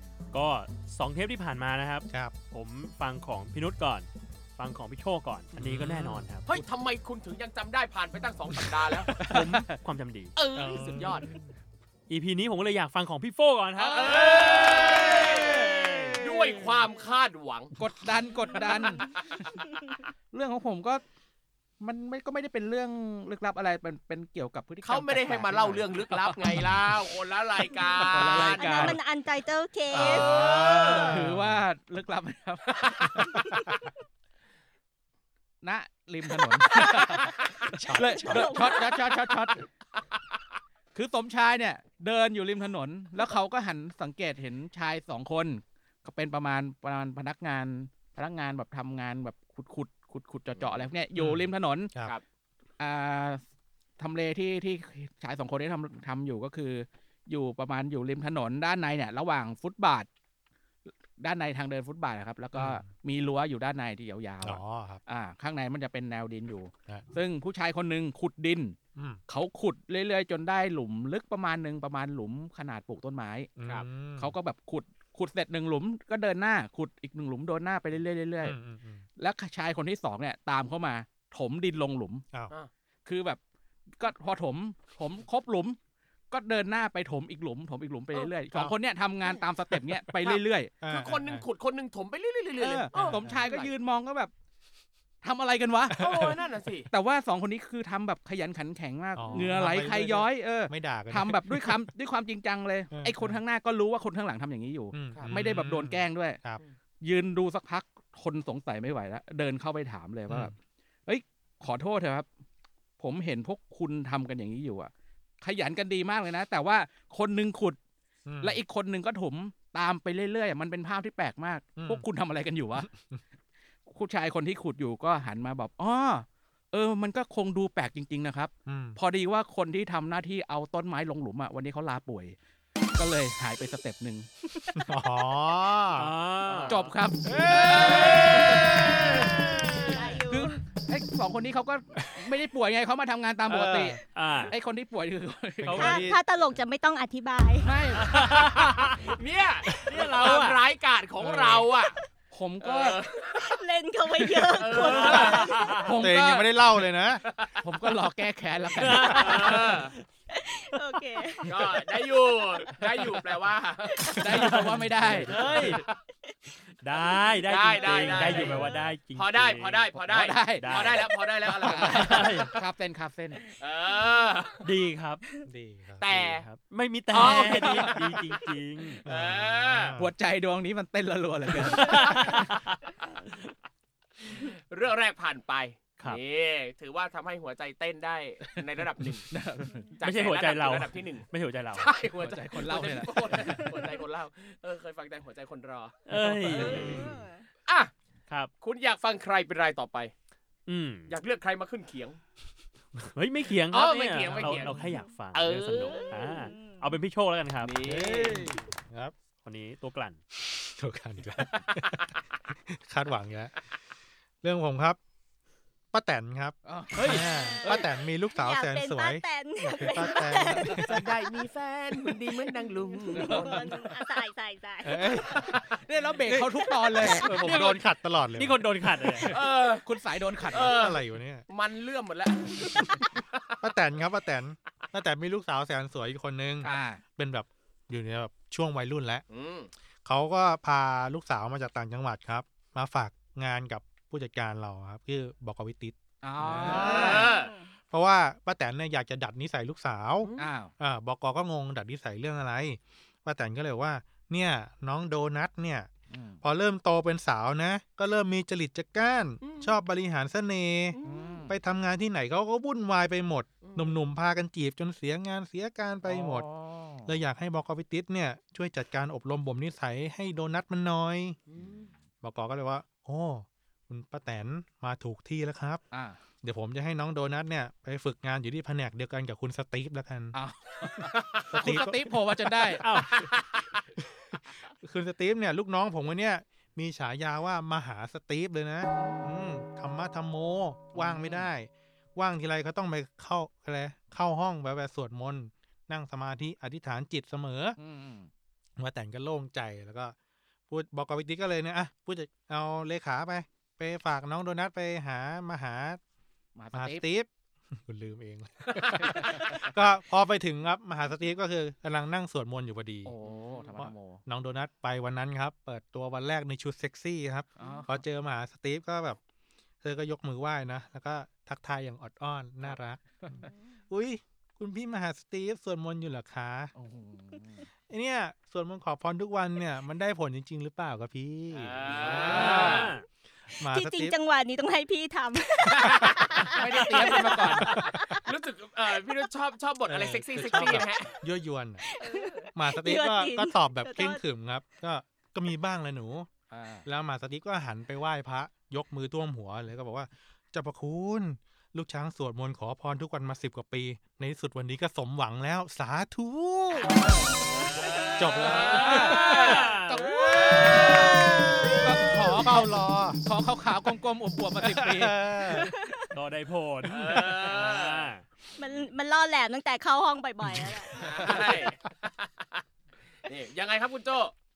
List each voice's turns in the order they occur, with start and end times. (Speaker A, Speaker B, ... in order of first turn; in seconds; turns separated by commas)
Speaker A: 0.3-6.5, Speaker B: 2.1-2.3, Speaker B: 5.5-6.2, Speaker C: 6.5-9.1, Speaker D: 9.0-9.8, Speaker A: 9.2-10.3, Speaker C: 10.3-11.3, Speaker B: 10.6-11.4, Speaker A: 12.1-16.1, Speaker C: 13.8-15.7, Speaker D: 13.9-16.4, Speaker C: 16.2-17.8, Speaker D: 17.8-19.5, Speaker C: 18.5-20.1, Speaker D: 20.3-21.0, Speaker D: 21.8-26.9, Speaker C: 24.8-28.9, Speaker E: 27.9-30.5, Speaker D: 28.0-29.0, Speaker B: 29.9-31.6, Speaker C: 29.9-31.2, Speaker D: 30.9-33.4, Speaker C: 32.7-33.3, Speaker B: 33.2-33.7, Speaker E: 33.3-33.8, Speaker D: 35.6-39.7, Speaker E: 36.7-37.3, Speaker B: 37.7-38.8, Speaker E: 37.9-39.0, Speaker D: 40.9-51.9, Speaker C: 50.5-50.8, Speaker B: 51.2-52.1, Speaker D: 52.8-53.4, Speaker D: 54.0-60.1, Speaker D: 61.2-68.8, Speaker B: 62.5-62.9, Speaker B: 64.4-65.0, Speaker B: 69.0-69.2, Speaker D: 69.3-73.5, Speaker B: 73.6-74.3, Speaker C: 73.6-74.0, Speaker D: 74.0-78.5, Speaker B: 78.4-79.0, Speaker D: 79.2-82.2, Speaker D: 83.0-83.4, Speaker D: 83.9-85.8, Speaker D: 86.3-90.8, Speaker C: 90.2-93.7, Speaker B: 90.8-91.4, Speaker D: 92.6-94.3, Speaker D: 95.2-96.1, Speaker C: 95.9-96.9, Speaker B: 95.9-96.4, Speaker D: 96.9-106.4, Speaker B: 99.2-101.8, Speaker B: 102.9-103.4, Speaker B: 104.9-106.6, Speaker D: 107.0-110.5, Speaker B: 110.3-110.5, Speaker D: 111.0-112.3, Speaker D: 113.0-117.8, Speaker B: 118.2-118.6, Speaker D: 118.4-122.9, Speaker B: 121.8-122.0, Speaker B: 122.9-123.2, Speaker D: 123.9-132.3, Speaker B: 128.7-129.0, Speaker D: 133.0-134.3, Speaker E: 134.5-134.8, Speaker B: 134.7-136.1, Speaker A: 136.0-136.9, Speaker D: 136.7-139.3, Speaker B: 137.2-139.3, Speaker E: 137.9-140.6, Speaker D: 139.8-145.8, Speaker B: 143.5-144.0, Speaker A: 144.1-144.5, Speaker B: 145.6-146.2, Speaker A: 145.7-146.0, Speaker E: 145.8-147.8, Speaker D: 147.6-148.2, Speaker A: 148.0-149.1, Speaker C: 148.1-151.9, Speaker A: 149.7-150.6, Speaker B: 151.2-151.7, Speaker D: 152.3-153.0, Speaker C: 152.6-153.6, Speaker E: 153.4-155.8, Speaker C: 154.5-155.9, Speaker A: 154.6-155.8, Speaker D: 154.8-155.2, Speaker D: 155.8-156.5, Speaker B: 156.0-157.2, Speaker C: 157.2-157.6, Speaker D: 157.6-159.3, Speaker A: 158.8-160.0, Speaker E: 158.8-159.6, Speaker C: 159.0-159.9, Speaker E: 160.3-161.6, Speaker C: 161.5-164.5, Speaker D: 164.1-165.8, Speaker A: 164.3-165.8, Speaker E: 165.4-165.8, Speaker A: 166.8-171.1, Speaker C: 167.5-172.3, Speaker E: 167.6-168.9, Speaker D: 170.1-170.9, Speaker D: 171.5-173.4, Speaker A: 172.0-172.5, Speaker C: 173.4-174.7, Speaker A: 174.6-175.2, Speaker B: 175.4-176.1, Speaker C: 176.0-176.5, Speaker A: 176.1-179.0, Speaker C: 177.1-178.4, Speaker C: 179.0-180.0, Speaker B: 179.0-180.1, Speaker D: 180.0-182.5, Speaker A: 181.6-182.6, Speaker C: 184.2-189.3, Speaker D: 189.3-189.9, Speaker C: 189.9-196.0, Speaker A: 190.0-191.9, Speaker D: 192.1-193.8, Speaker A: 196.1-197.1, Speaker D: 196.1-197.1, Speaker C: 196.5-197.0, Speaker E: 196.8-197.5, Speaker C: 198.6-200.1, Speaker A: 200.7-201.2, Speaker C: 201.1-202.2, Speaker A: 202.9-207.8, Speaker C: 203.7-206.1, Speaker E: 206.0-206.9, Speaker C: 207.6-208.5, Speaker B: 207.8-209.1, Speaker A: 209.4-210.2, Speaker B: 210.4-213.6, Speaker C: 211.4-212.1, Speaker B: 214.4-215.0, Speaker B: 215.9-221.0, Speaker D: 216.6-217.7, Speaker A: 216.9-217.3, Speaker E: 217.2-221.0, Speaker C: 220.9-223.9, Speaker E: 222.0-225.6, Speaker D: 223.1-223.9, Speaker B: 224.8-225.6, Speaker D: 225.7-227.5, Speaker B: 226.2-228.7, Speaker E: 226.6-227.0, Speaker A: 227.3-229.4, Speaker C: 229.2-229.9, Speaker D: 229.8-230.8, Speaker C: 230.5-233.4, Speaker B: 230.5-231.5, Speaker B: 233.6-239.2, Speaker D: 236.6-237.0, Speaker C: 239.3-239.7, Speaker B: 240.0-247.4, Speaker D: 246.2-247.3, Speaker C: 246.6-247.5, Speaker E: 247.2-247.7, Speaker B: 247.9-255.9, Speaker C: 250.2-250.5, Speaker D: 250.4-250.7, Speaker D: 256.1-256.4, Speaker B: 256.4-266.5, Speaker C: 259.4-259.8, Speaker E: 260.9-261.4, Speaker D: 261.0-261.6, Speaker C: 263.6-264.0, Speaker D: 266.0-267.2, Speaker B: 267.0-271.4, Speaker C: 271.5-271.9, Speaker B: 272.2-275.8, Speaker D: 275.9-276.2, Speaker B: 276.4-280.4, Speaker D: 280.3-282.9, Speaker C: 281.0-281.6, Speaker B: 281.5-282.1, Speaker A: 282.8-283.2, Speaker C: 283.0-283.8, Speaker B: 284.0-297.8, Speaker D: 290.9-291.5, Speaker D: 297.8-298.3, Speaker B: 298.8-300.1, Speaker B: 300.7-306.0, Speaker D: 306.5-307.0, Speaker B: 306.7-313.1, Speaker D: 309.0-309.7, Speaker D: 313.0-314.2, Speaker B: 313.6-319.2, Speaker D: 317.6-318.0, Speaker B: 319.8-323.2, Speaker D: 322.6-323.5, Speaker B: 323.9-326.7, Speaker D: 326.8-327.7, Speaker B: 327.9-332.9, Speaker C: 331.5-332.9, Speaker D: 332.1-332.6, Speaker A: 332.2-333.0, Speaker E: 332.6-332.9, Speaker B: 333.6-334.1, Speaker E: 333.6-338.3, Speaker C: 335.8-336.5, Speaker D: 336.4-337.8, Speaker B: 337.6-338.0, Speaker C: 338.2-341.2, Speaker B: 339.9-341.8, Speaker E: 341.8-344.2, Speaker B: 342.5-346.3, Speaker D: 346.5-346.9, Speaker B: 346.9-357.2, Speaker E: 357.6-358.2, Speaker C: 357.8-359.7, Speaker B: 358.1-359.3, Speaker D: 358.4-362.7, Speaker A: 358.9-360.1, Speaker C: 360.4-361.0, Speaker E: 360.4-362.3, Speaker B: 361.1-363.2, Speaker D: 363.2-365.6, Speaker B: 364.6-365.7, Speaker E: 365.6-366.1, Speaker A: 366.1-368.2, Speaker C: 366.8-368.1, Speaker E: 368.6-371.3, Speaker B: 370.4-371.5, Speaker C: 371.0-372.6, Speaker C: 373.2-374.3